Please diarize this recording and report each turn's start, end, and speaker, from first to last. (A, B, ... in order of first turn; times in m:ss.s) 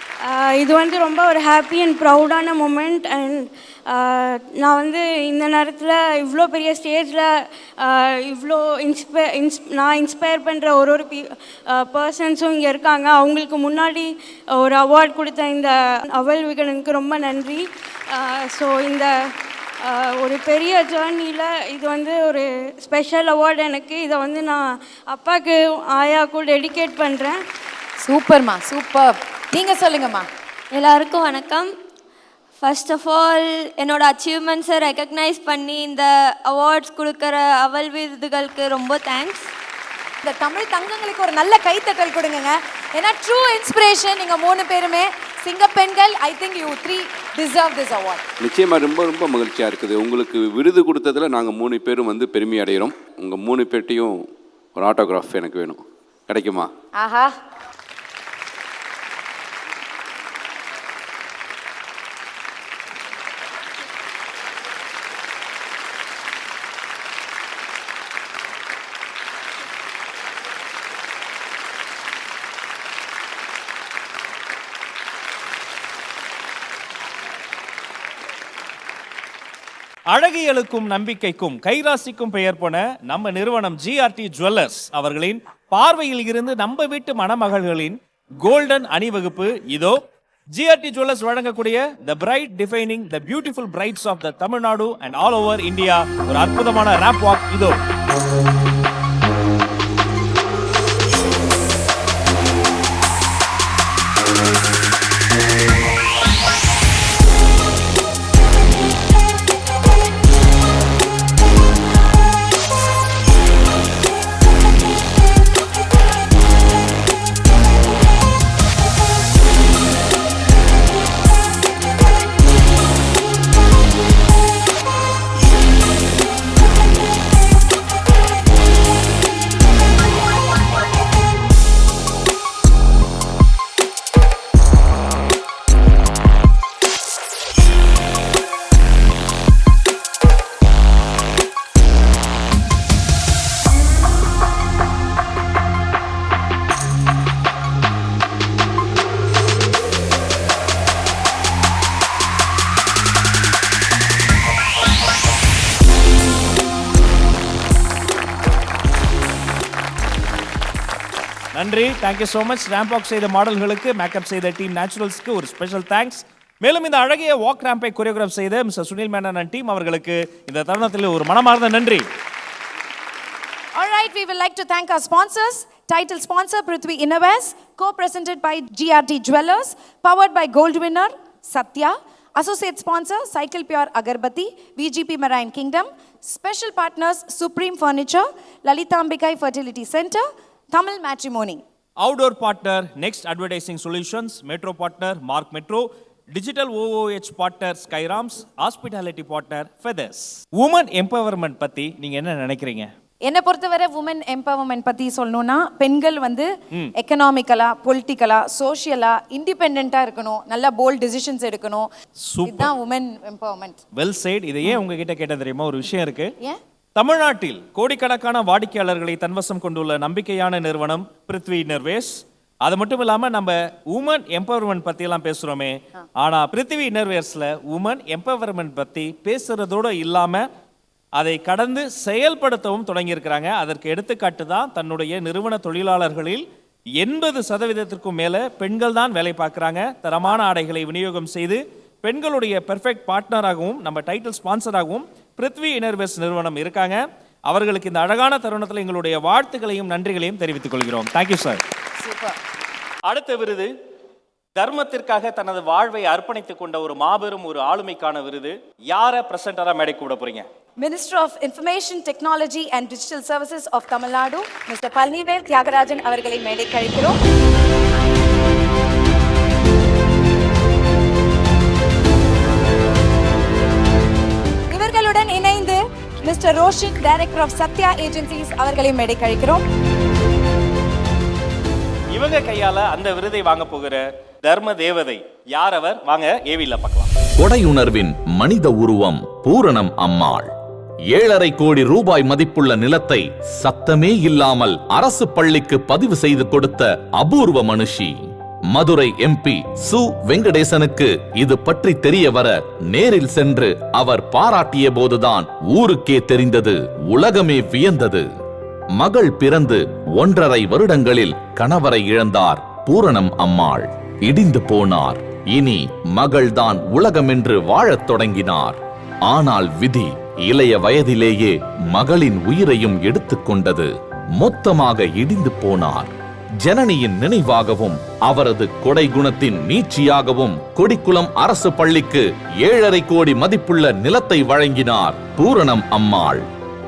0:00.2-0:19.1 A
0:19.8-0:27.4 A
0:28.0-0:30.3 B
0:30.7-0:31.7 C
0:32.6-0:39.5 C
0:40.2-0:48.2 B
0:48.4-0:54.2 D
0:54.8-0:56.7 D
0:57.0-0:57.3 B
1:20.1-1:30.0 E
1:30.5-1:37.8 E
2:41.5-2:52.0 E
2:53.8-3:11.6 B
3:12.0-3:22.9 E
3:23.2-3:31.9 B
3:32.3-3:32.7 E
3:32.4-3:33.8 B
3:34.0-3:36.3 E
3:37.0-3:50.5 E
3:51.2-3:56.4 E
3:57.0-4:11.6 E
4:12.0-4:12.4 B
4:13.1-4:13.7 E
4:14.6-4:20.5 E
4:20.8-4:27.2 B
4:34.7-4:39.6 B
4:42.1-4:47.1 E
4:47.4-4:50.5 F
4:51.1-5:08.3 F
5:09.0-5:36.5 F